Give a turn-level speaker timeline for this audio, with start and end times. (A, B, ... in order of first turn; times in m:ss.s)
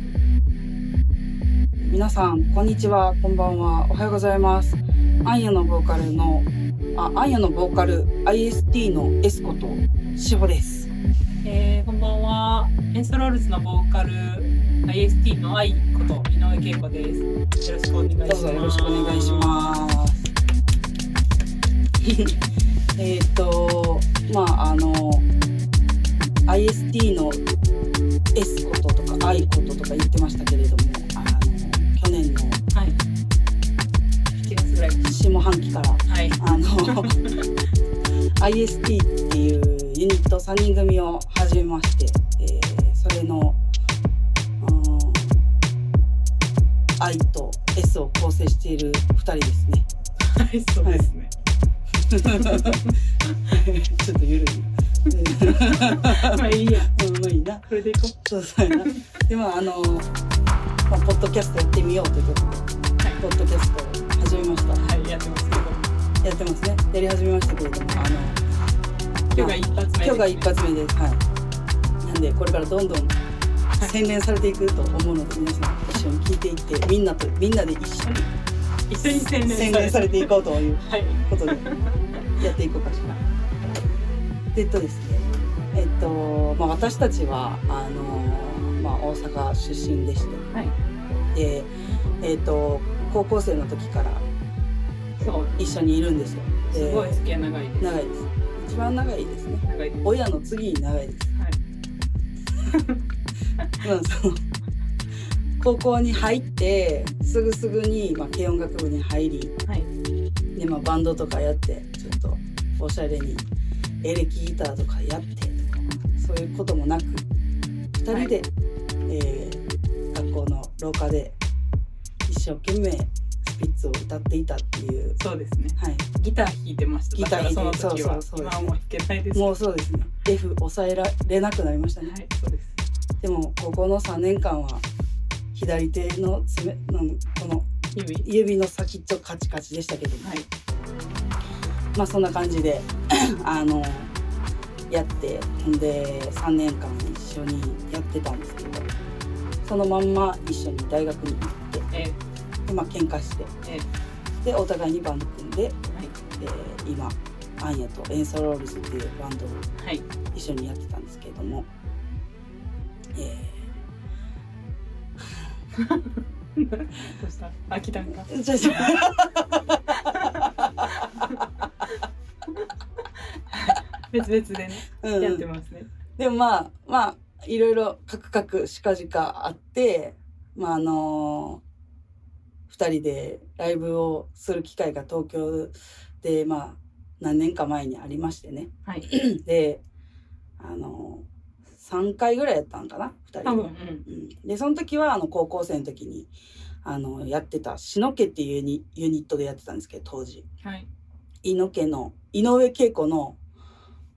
0:01.8-0:10.9 A
0:11.4-0:19.6 B
0:18.2-0:20.3 A
0:22.0-0:22.4 A
0:23.0-0:25.3 A
0:26.5-0:27.4 A
0:28.3-0:32.6 A
0:32.7-0:33.0 B
0:34.4-0:35.1 B
0:35.0-0:37.2 A
0:36.1-0:37.5 B
0:38.4-0:43.6 A
0:44.6-0:45.4 A
0:47.0-0:49.8 A
0:50.2-0:51.3 B
0:50.8-0:51.1 A
0:52.0-0:52.8 A
0:52.4-0:53.5 B
0:53.5-1:00.1 A
0:55.3-0:56.9 B
0:57.7-0:58.1 B
0:58.7-0:59.2 B
1:00.9-1:02.7 A
1:03.0-1:03.2 B
1:03.2-1:04.8 A
1:04.8-1:05.9 B
1:06.2-1:08.4 A
1:09.3-1:10.5 B
1:09.4-1:11.2 A
1:12.0-1:13.2 A
1:13.8-1:18.3 A
1:18.9-1:21.9 B
1:19.0-1:21.6 A
1:22.4-1:23.2 A
1:24.5-1:30.4 A
1:31.3-1:31.7 A
1:32.2-1:34.2 A
1:35.2-1:35.8 B
1:35.5-1:37.2 A
1:36.7-1:38.0 B
1:37.8-1:41.3 A
1:39.6-1:40.0 B
1:42.7-1:43.0 B
1:43.8-1:44.4 A
1:45.6-1:49.5 A
1:50.5-1:53.4 A
1:54.0-1:57.2 A
1:58.0-1:58.5 A
1:58.1-1:58.3 B
1:59.1-1:59.6 A
2:00.1-2:01.4 A
2:02.3-2:05.2 A
2:05.2-2:09.6 B
2:05.8-2:06.0 A
2:07.1-2:08.7 A
2:09.3-2:12.1 A
2:12.0-2:12.7 B
2:13.2-2:14.8 A
2:15.5-2:17.7 A
2:17.9-2:18.3 B
2:18.2-2:20.3 A
2:20.2-2:20.5 B
2:21.9-2:24.1 A
2:24.9-2:28.9 A
2:29.6-2:31.9 A
2:31.9-2:32.2 B
2:32.6-2:33.5 A
2:33.6-2:33.9 B
2:34.4-2:35.8 A
2:36.4-2:39.6 A
2:39.8-2:40.0 B
2:40.3-2:41.7 A
2:43.1-2:43.7 A
2:45.8-2:49.0 B
2:48.2-2:50.5 A
2:49.9-2:52.6 B
2:53.5-2:55.9 B
2:55.0-2:55.5 A
2:56.2-3:01.6 A
3:02.7-3:09.8 A
3:08.8-3:09.1 B
3:10.6-3:11.2 A
3:11.8-3:16.3 A
3:13.4-3:14.0 B
3:16.8-3:20.4 A
3:21.4-3:23.4 A